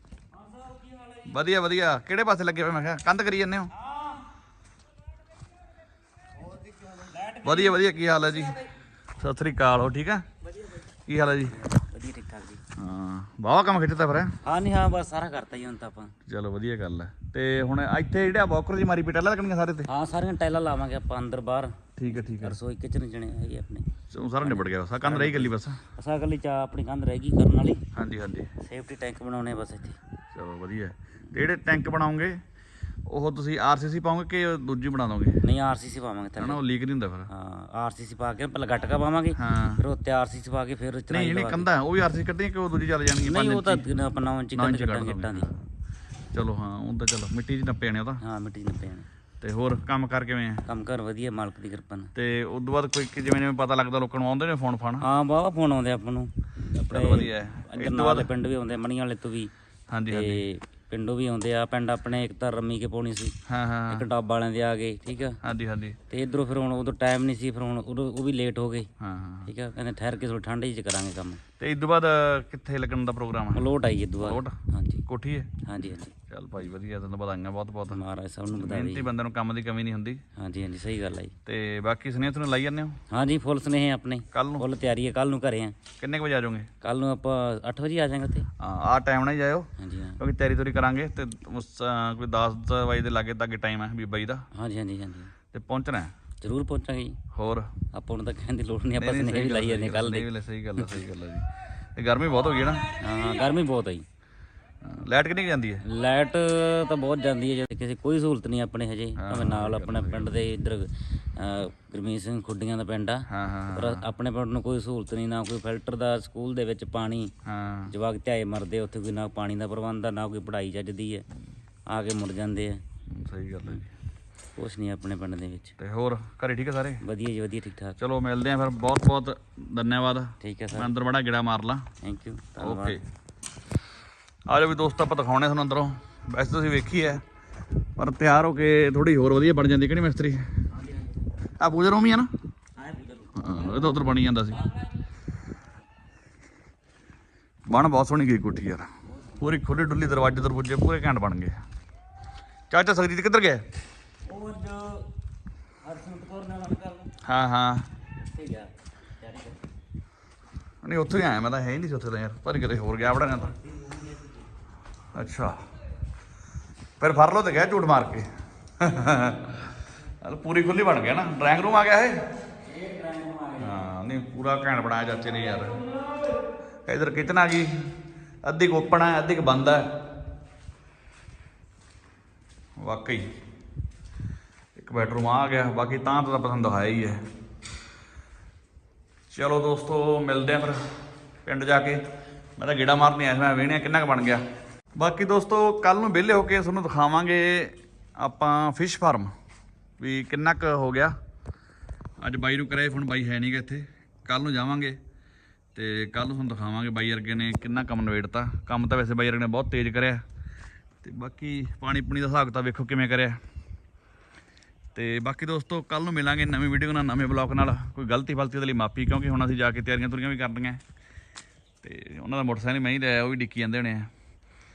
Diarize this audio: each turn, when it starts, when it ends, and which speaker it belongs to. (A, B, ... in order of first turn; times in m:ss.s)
0:01.3-0:03.7 A
0:07.4-0:08.6 A
0:09.2-0:10.2 A
0:11.1-0:11.6 A
0:11.6-0:12.6 B
0:12.8-0:14.3 A
0:14.4-0:16.1 B
0:16.3-0:19.9 A
0:19.9-0:23.8 B
0:22.0-0:22.6 A
0:24.1-0:25.8 A
0:24.4-0:27.8 B
0:28.0-0:28.5 A
0:28.6-0:30.0 B
0:30.3-0:32.4 A
0:33.1-0:35.4 A
0:35.4-0:36.6 B
0:36.4-0:37.3 A
0:37.3-0:41.7 B
0:39.4-0:39.8 A
0:41.1-0:43.8 A
0:43.2-0:45.5 B
0:44.5-0:45.5 A
0:46.3-0:48.2 A
0:48.2-0:49.0 B
0:49.4-0:50.6 A
0:50.7-0:52.1 B
0:52.1-0:55.0 A
0:55.0-0:59.5 B
0:56.9-0:58.3 A
0:59.9-1:00.4 A
1:00.1-1:03.3 B
1:03.5-1:04.0 A
1:03.9-1:05.4 B
1:05.4-1:06.0 A
1:06.1-1:08.9 B
1:09.0-1:09.5 A
1:09.5-1:11.4 B
1:11.6-1:13.7 A
1:13.5-1:15.0 B
1:14.2-1:14.5 A
1:15.0-1:15.5 A
1:15.6-1:16.1 B
1:16.3-1:18.0 A
1:17.9-1:19.1 B
1:18.5-1:20.2 A
1:20.4-1:21.3 B
1:21.4-1:23.0 A
1:23.1-1:25.8 B
1:24.3-1:24.6 A
1:26.0-1:26.7 A
1:26.8-1:28.5 B
1:28.6-1:29.7 A
1:29.8-1:30.2 B
1:30.2-1:34.4 A
1:34.6-1:35.3 B
1:35.5-1:36.1 A
1:36.4-1:37.2 B
1:37.3-1:37.7 A
1:37.9-1:40.2 B
1:39.0-1:42.9 A
1:43.0-1:44.0 B
1:44.8-1:45.8 A
1:45.9-1:57.3 B
1:49.2-1:50.3 A
1:53.3-1:54.0 A
1:57.4-1:57.9 A
1:57.9-2:01.2 B
2:01.9-2:02.8 B
2:03.1-2:03.9 A
2:04.6-2:05.7 B
2:05.8-2:07.0 A
2:07.0-2:08.0 B
2:08.0-2:11.9 A
2:10.4-2:10.9 B
2:12.0-2:13.0 B
2:12.6-2:13.0 A
2:14.5-2:17.2 A
2:18.0-2:20.4 A
2:21.6-2:22.3 A
2:22.9-2:23.9 B
2:23.3-2:24.7 A
2:27.6-2:31.6 A
2:32.7-2:33.6 A
2:34.3-2:35.0 B
2:35.8-2:37.1 B
2:37.2-2:37.8 A
2:38.3-2:39.6 B
2:40.8-2:43.5 A
2:43.8-2:44.2 B
2:45.1-2:45.6 A
2:47.0-2:48.3 A
2:48.8-2:49.7 A
2:50.2-2:52.2 A
2:52.7-2:53.7 B
2:53.6-2:55.8 A
2:56.8-2:57.8 A
2:58.4-2:59.9 A
3:02.8-3:03.3 A
3:04.8-3:07.2 A
3:09.3-3:10.8 A
3:11.4-3:12.0 A
3:12.6-3:14.4 A
3:14.9-3:19.3 A
3:20.0-3:21.1 A
3:22.2-3:25.0 A
3:25.7-3:30.2 A
3:31.0-3:33.4 A
3:34.9-3:40.8 A
3:41.8-3:44.1 A